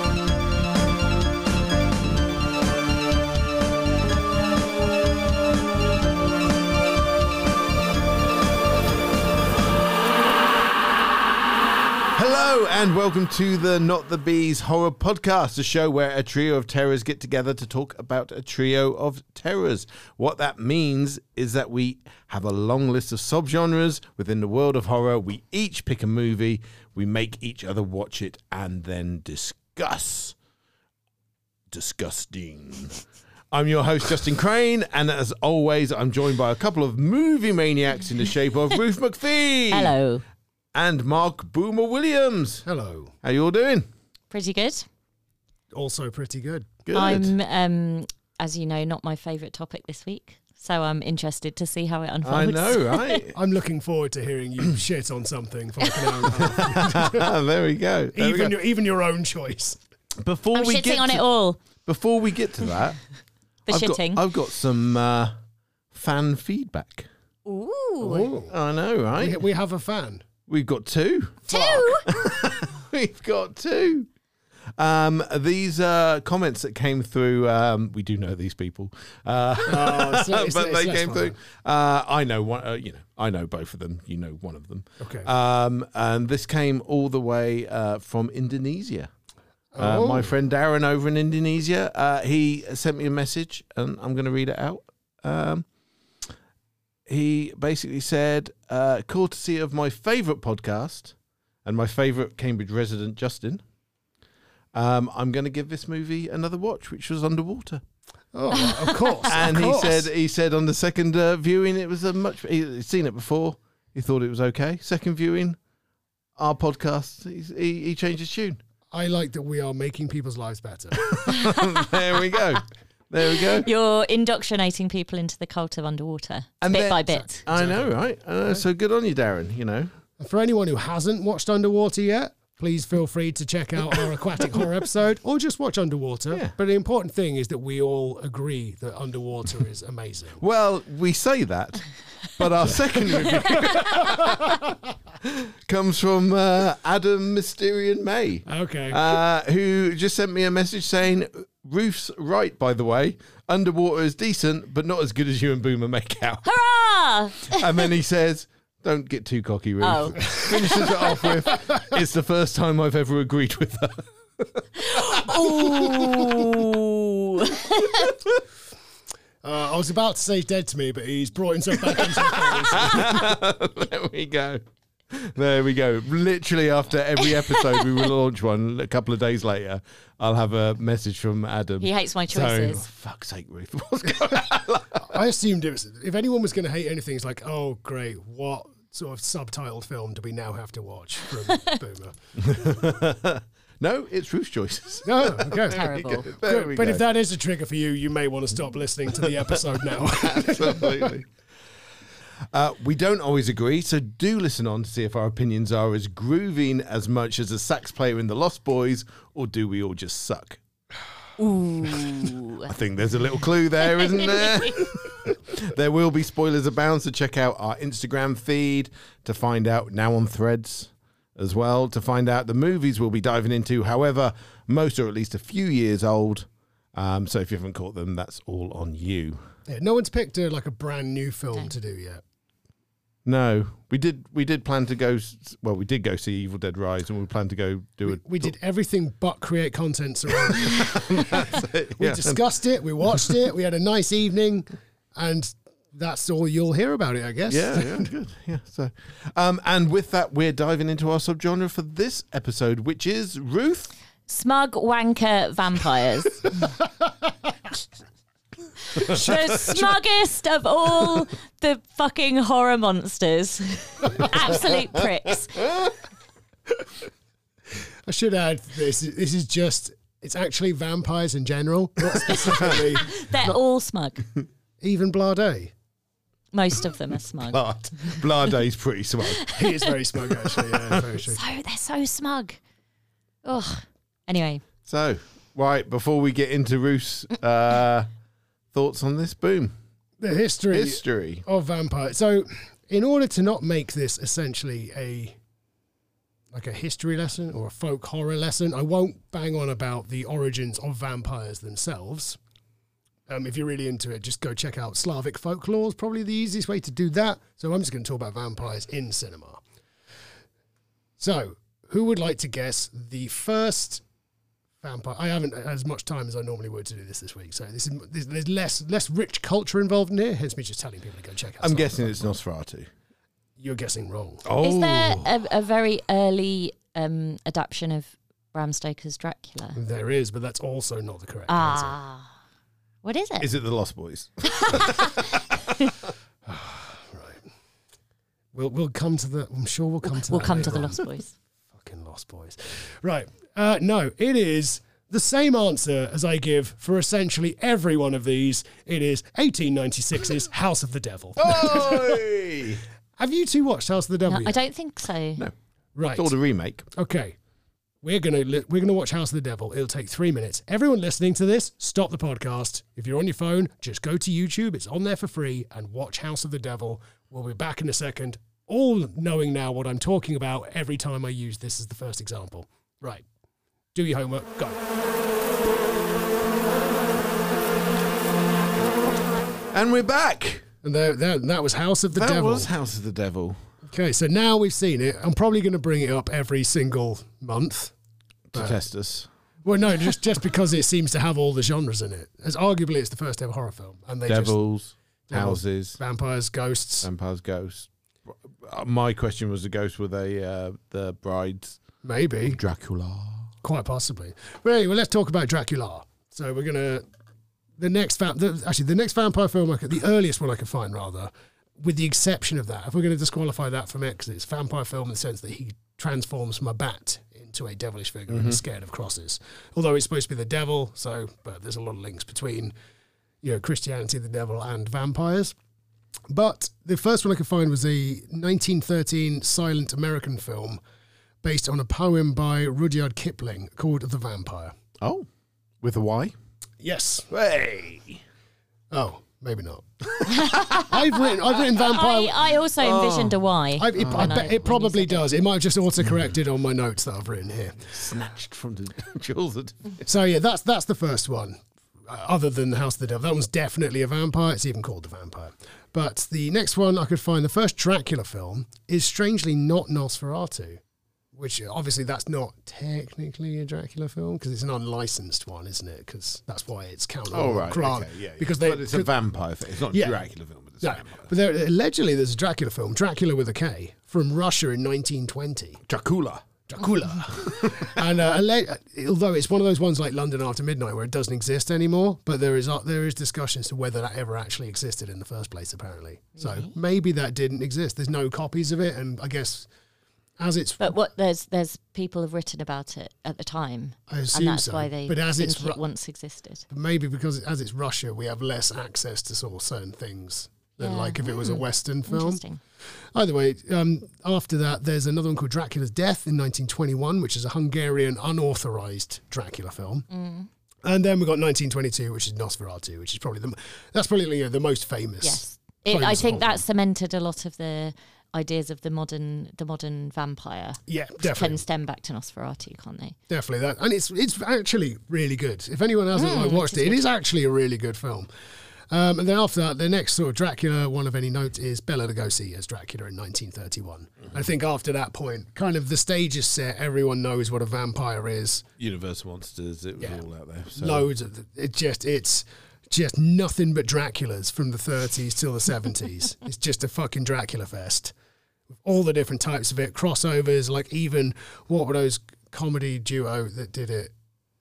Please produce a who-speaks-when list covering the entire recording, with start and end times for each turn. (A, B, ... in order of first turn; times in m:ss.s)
0:12.1-0:30.4 A
0:31.7-0:39.9 A
0:39.7-0:40.2 B
0:40.7-0:42.7 A
0:42.7-0:43.1 C
0:43.2-0:43.9 A
0:44.3-0:44.9 B
0:45.7-0:46.7 C
0:46.9-0:47.3 A
0:46.9-0:53.2 B
0:52.2-0:53.4 A
0:53.3-0:57.3 C
0:56.3-0:58.6 A
0:58.2-0:59.8 C
1:00.2-1:01.2 A
1:00.5-1:01.6 B
1:01.8-1:03.0 A
1:03.7-1:04.2 B
1:03.7-1:05.4 A
1:05.9-1:07.1 A
1:07.5-1:08.3 B
1:08.0-1:08.5 C
1:08.5-1:09.4 A
1:09.2-1:10.3 C
1:10.5-1:14.1 A
1:11.5-1:12.2 B
1:14.8-1:29.1 A
1:19.7-1:21.4 C
1:25.0-1:25.3 C
1:29.7-1:30.3 C
1:29.8-1:35.7 A
1:37.1-1:43.6 A
1:44.7-1:47.8 A
1:48.3-1:50.1 C
1:48.7-1:49.2 B
1:49.3-1:55.6 A
1:56.4-1:58.6 A
1:58.9-2:01.2 C
2:01.0-2:03.7 A
2:01.3-2:02.3 B
2:03.3-2:07.4 B
2:06.6-2:09.9 A
2:07.1-2:08.0 C
2:10.2-2:20.4 C
2:20.4-2:24.5 A
2:22.7-2:24.7 C
2:25.2-2:36.5 A
2:28.5-2:29.2 C
2:36.4-2:37.7 B
2:37.4-2:46.5 A
2:39.8-2:40.2 B
2:40.8-2:41.2 B
2:44.8-2:48.2 B
2:49.4-2:53.3 C
2:51.9-3:05.2 A
3:01.8-3:02.8 B
3:05.0-3:12.2 C
3:11.5-3:11.8 B
3:12.4-3:17.0 A
3:15.0-3:21.2 C
3:15.7-3:16.3 B
3:20.1-3:21.3 A
3:22.5-3:30.6 A
3:31.4-3:32.7 B
3:32.6-3:49.4 A
3:33.8-3:34.8 B
3:49.7-3:52.2 C
3:53.2-3:58.5 A
3:58.1-4:08.1 C
4:00.5-4:02.4 A
4:07.5-4:13.9 A
4:14.3-4:16.5 B
4:18.9-4:25.6 B
4:25.6-4:25.9 A
4:28.1-4:33.2 C
4:32.2-4:34.2 B
4:34.8-4:35.7 C
4:36.5-4:38.2 B
4:37.5-4:39.5 A
4:39.3-4:39.9 B
4:39.5-4:41.4 C
4:40.7-4:41.0 A
4:41.2-4:42.6 B
4:43.4-4:44.6 B
4:44.9-4:48.1 A
4:48.7-4:49.7 A
4:50.2-4:55.4 C
4:50.7-4:51.4 A
4:56.5-5:02.4 C
5:03.3-5:09.6 C
5:11.2-5:14.0 C
5:14.8-5:22.4 C
5:21.6-5:22.9 A
5:23.6-5:24.4 C
5:24.4-5:25.3 A
5:24.6-5:29.8 B
5:29.8-5:32.0 C
5:31.5-5:32.3 B
5:33.0-5:33.5 B
5:33.4-5:35.2 A
5:34.6-5:35.2 B
5:36.4-5:37.4 C
5:38.5-5:41.1 C
5:40.3-5:41.3 B
5:41.7-5:52.2 C
5:51.4-5:52.8 A
5:53.2-5:54.6 C
5:54.2-5:55.4 B
5:56.0-5:56.3 C
5:56.1-5:56.9 A
5:57.0-5:57.4 C
5:58.0-6:13.2 C
6:14.0-6:14.8 C
6:19.7-6:20.7 A
6:20.8-6:22.7 C
6:22.1-6:23.6 A
6:23.9-6:27.9 C
6:28.5-6:29.3 A
6:28.5-6:28.8 C
6:29.6-6:34.6 C
6:34.3-6:36.0 A
6:35.3-6:37.1 C
6:37.0-6:41.8 A
6:42.0-6:42.6 C
6:42.4-6:43.5 A
6:43.6-6:47.0 C
6:47.8-7:02.7 C
6:58.3-6:58.6 A
7:03.4-7:05.6 C
7:06.3-7:10.8 C
7:11.4-7:14.7 C
7:15.0-7:15.3 A
7:15.8-7:16.4 A
7:16.8-7:17.3 C
7:17.3-7:18.2 A
7:18.9-7:22.5 C
7:20.3-7:21.0 B
7:21.8-7:25.3 B
7:22.8-7:23.4 A
7:23.8-7:27.9 C
7:24.0-7:24.5 A
7:27.9-7:30.0 A
7:30.0-7:40.8 C
7:41.3-7:49.1 C
7:47.3-7:51.3 A
7:49.9-7:50.2 C
7:50.8-7:55.8 C
7:55.9-7:56.5 A
7:56.7-8:09.7 C
7:57.4-7:58.0 A
8:06.4-8:06.7 B
8:10.4-8:11.0 C
8:10.8-8:16.6 B
8:14.1-8:15.8 C
8:16.7-8:22.4 C
8:20.8-8:22.6 B
8:23.1-8:30.1 C
8:30.1-8:30.5 B
8:30.8-8:36.6 C
8:35.2-8:43.2 B
8:40.9-8:41.6 C
8:43.3-8:48.3 C
8:46.1-8:47.1 B
8:48.9-8:58.7 C
8:58.8-9:01.1 A
9:00.8-9:08.1 C
9:08.8-9:14.1 C